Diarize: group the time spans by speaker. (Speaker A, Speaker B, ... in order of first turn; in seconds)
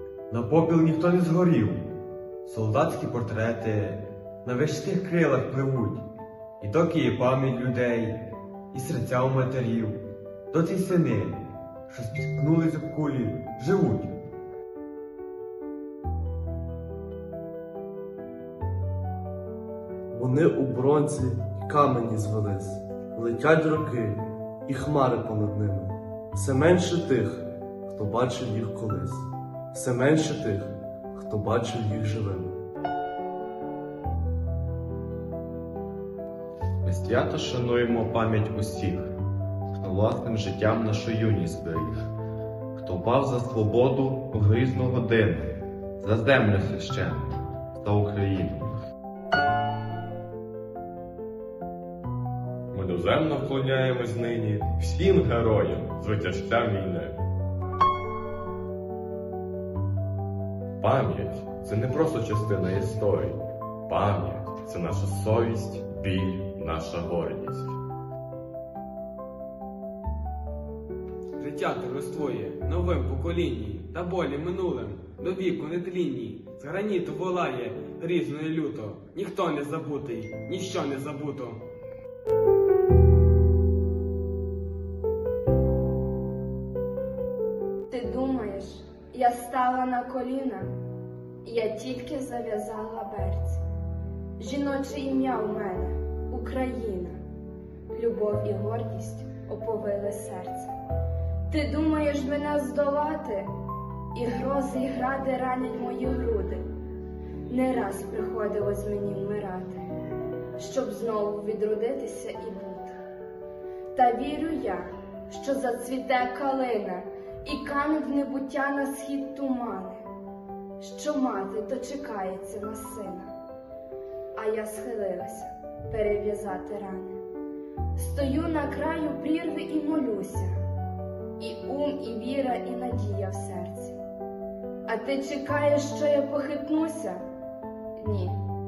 Speaker A: 0.3-1.8, 2.4-6.0, 6.6-10.0, 10.5-14.1
Speaker B: 20.1-32.5
Speaker C: 36.8-39.1, 39.7-42.0, 42.7-48.7
Speaker D: 52.7-57.2, 60.8-67.8
Speaker E: 71.4-81.6
Speaker F: 87.9-90.7, 91.4-93.6, 94.4-97.2, 97.9-100.7, 101.5-103.5, 104.1-106.6, 107.5-109.9, 110.6-113.0, 113.9-120.0, 120.8-123.3, 124.3-127.2, 128.0-130.6, 131.4-134.0, 134.8-137.2, 137.9-138.4